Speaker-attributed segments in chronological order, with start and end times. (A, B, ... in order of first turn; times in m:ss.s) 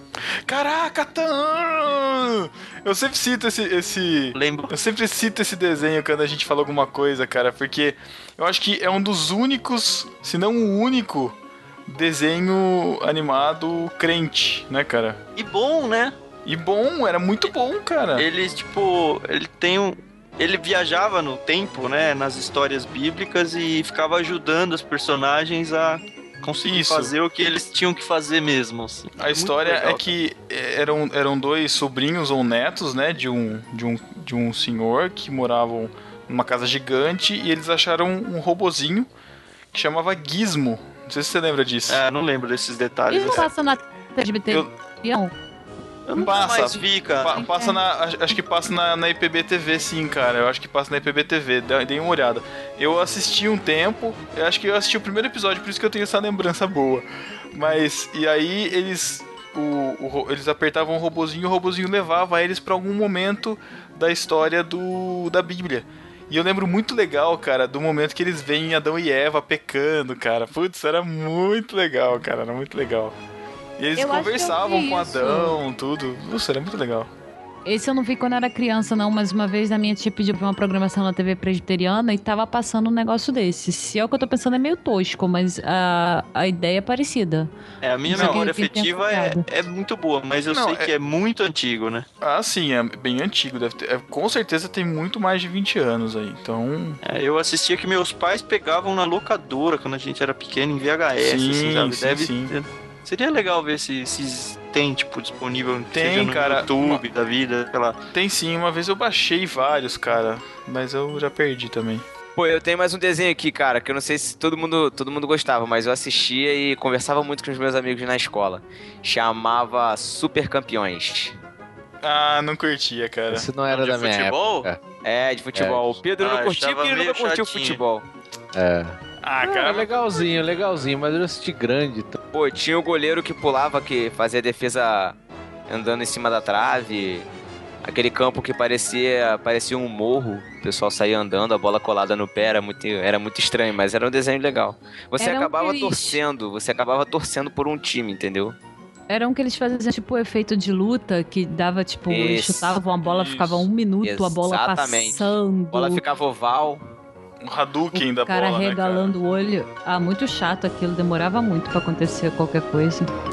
0:00.5-0:11.4 A
0:04.3-0:04.8 B
0:11.9-0:15.2 A
0:15.4-0:16.2 B
0:16.4-0:18.3 A
0:18.2-0:30.2 B
0:26.6-0:27.1 A
0:29.2-0:39.1 A
0:39.7-0:42.0 A
0:41.9-0:43.5 B
0:43.1-0:45.3 C
0:43.2-0:43.5 A
0:46.1-0:47.5 B
0:46.2-1:13.2 A
0:47.3-0:47.8 C
1:13.8-1:17.1 A
1:14.0-1:15.6 C
1:17.7-1:27.5 C
1:27.8-1:32.1 B
1:28.0-1:29.4 C
1:28.1-1:28.4 A
1:30.5-1:30.9 A
1:32.2-1:37.0 A
1:37.0-1:48.0 B
1:41.2-1:42.5 A
1:45.9-1:47.0 A
1:48.1-1:52.0 A
1:52.4-2:01.4 D
2:02.0-2:04.6 A
2:03.3-2:04.8 E
2:03.8-2:04.4 B
2:05.0-2:08.1 D
2:05.5-2:05.9 E
2:06.2-2:07.8 B
2:08.5-2:12.2 E
2:09.2-2:10.6 A
2:12.3-2:15.2 D
2:15.7-2:17.3 D
2:17.8-2:28.6 D
2:25.2-2:26.2 C
2:29.1-2:36.0 C
2:32.1-2:32.7 D
2:32.9-2:33.7 A
2:34.0-2:36.8 D
2:37.4-2:39.2 A
2:37.9-2:43.1 C